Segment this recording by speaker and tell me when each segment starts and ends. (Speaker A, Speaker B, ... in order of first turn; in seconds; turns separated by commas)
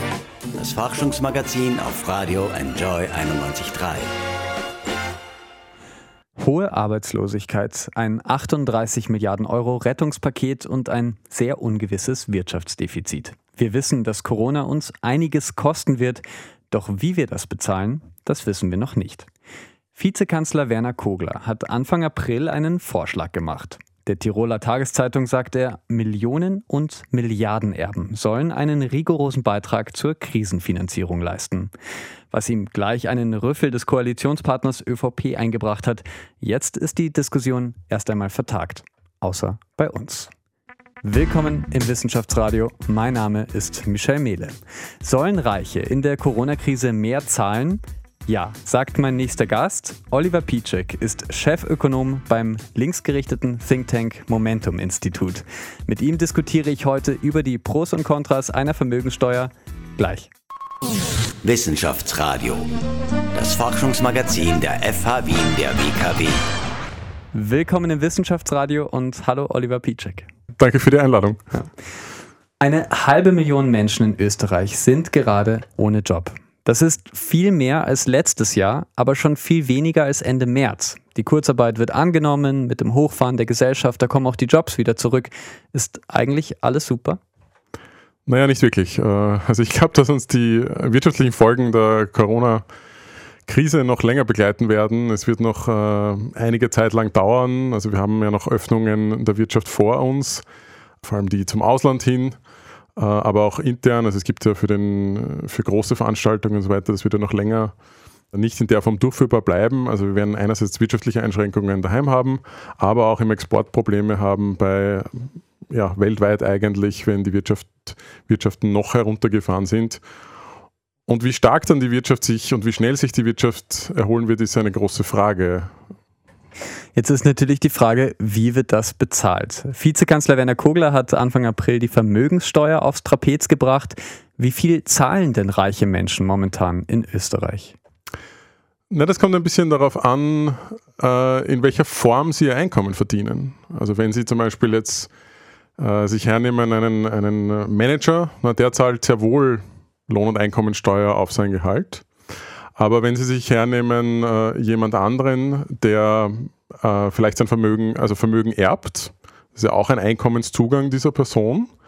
Speaker A: 0.5-4.1, Speaker B: 6.4-19.3, Speaker B: 19.9-31.7, Speaker B: 32.3-40.3, Speaker B: 41.0-60.3, Speaker A: 61.4-62.7, Speaker A: 63.3-66.4, Speaker B: 67.3-70.3, Speaker C: 70.6-71.6, Speaker B: 72.6-87.2, Speaker C: 88.2-92.6, Speaker C: 93.5-100.4, Speaker C: 101.0-102.4, Speaker C: 103.0-107.7, Speaker C: 108.3-120.0, Speaker C: 121.1-125.8, Speaker B: 127.0-137.8, Speaker C: 138.9-145.1, Speaker C: 145.8-152.1, Speaker C: 152.8-161.7